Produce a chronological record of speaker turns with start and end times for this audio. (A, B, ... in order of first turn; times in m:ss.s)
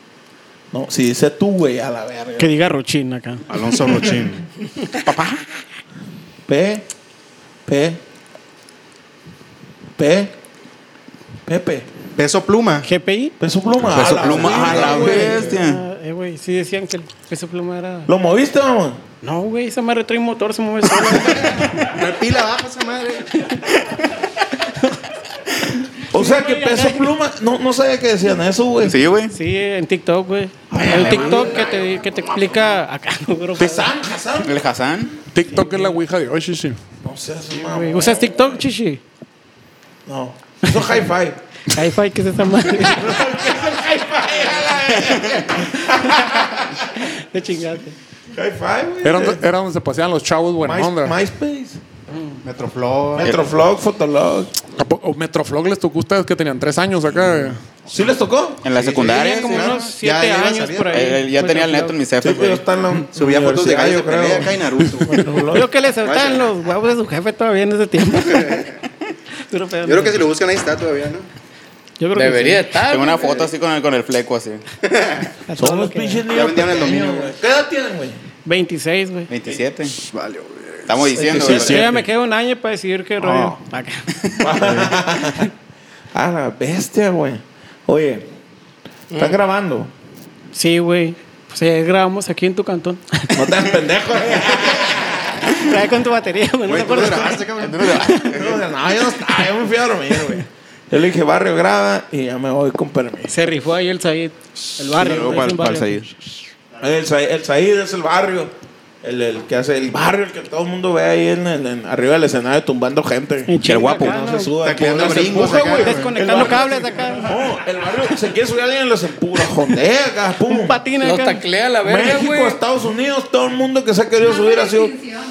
0:00.7-0:02.5 A
0:02.4-0:03.5 B
0:03.5-0:04.5 C
0:05.0-0:05.4 D
0:06.5-0:06.8 A
0:07.7-0:08.0 A
0:10.0-0:10.3 A
0:11.5-0:11.9 A
0:12.2-0:12.9 C
0:12.8-0:13.4 B
0:13.4-0:15.5 A
0:13.9-0:15.8 D
0:15.0-0:18.1 B
0:18.1-0:19.0 A
0:19.2-0:21.9 B
0:21.4-0:23.4 C
0:23.4-0:23.6 B
0:26.1-0:29.0 A
0:26.1-0:27.1 B
0:28.8-0:29.4 D
0:29.3-0:33.9 B
0:30.7-0:31.9 A
0:30.7-0:31.4 C
0:33.6-0:34.6 A
0:34.4-0:35.3 D
0:35.3-0:36.8 E
0:37.0-0:38.6 A
0:37.6-0:39.0 B
0:40.1-0:41.4 A
0:41.7-0:43.2 B
0:42.8-0:46.8 A
0:45.8-0:48.0 B
0:48.3-0:49.4 A
0:49.0-0:51.2 E
0:50.6-0:51.8 A
0:52.4-0:53.4 C
0:53.2-0:54.6 A
0:54.7-0:57.7 E
0:57.9-0:58.6 A
0:58.6-0:59.8 D
0:58.7-1:01.1 C
0:59.0-1:02.0 B
1:00.9-1:02.6 D
1:02.2-1:04.6 A
1:03.1-1:05.3 C
1:05.1-1:08.7 B
1:05.1-1:05.7 A
1:06.0-1:06.5 C
1:09.5-1:10.3 B
1:09.8-1:11.3 C
1:12.0-1:12.7 B
1:12.2-1:13.5 F
1:12.9-1:14.6 D
1:14.9-1:15.3 C
1:15.5-1:16.2 B
1:15.6-1:18.2 A
1:16.3-1:17.3 C
1:18.4-1:19.3 B
1:19.3-1:20.0 D
1:20.0-1:21.8 C
1:20.9-1:22.0 D
1:21.3-1:21.8 A
1:21.5-1:24.1 B
1:23.2-1:23.5 A
1:24.4-1:25.5 A
1:24.6-1:25.4 B
1:26.1-1:28.3 A
1:29.1-1:29.4 F
1:29.2-1:29.9 A
1:30.5-1:33.5 B
1:33.3-1:35.5 A
1:35.6-1:37.5 B
1:36.6-1:38.3 C
1:37.6-1:38.6 D
1:38.0-1:38.3 B
1:38.3-1:43.3 A
1:43.3-1:46.2 B
1:44.8-1:46.1 D
1:46.8-2:00.8 A
1:53.5-1:54.5 B
1:53.6-1:54.3 D
1:54.6-1:56.6 C
1:55.3-1:57.3 B
2:00.5-2:01.4 B
2:01.0-2:02.6 F
2:01.8-2:05.1 A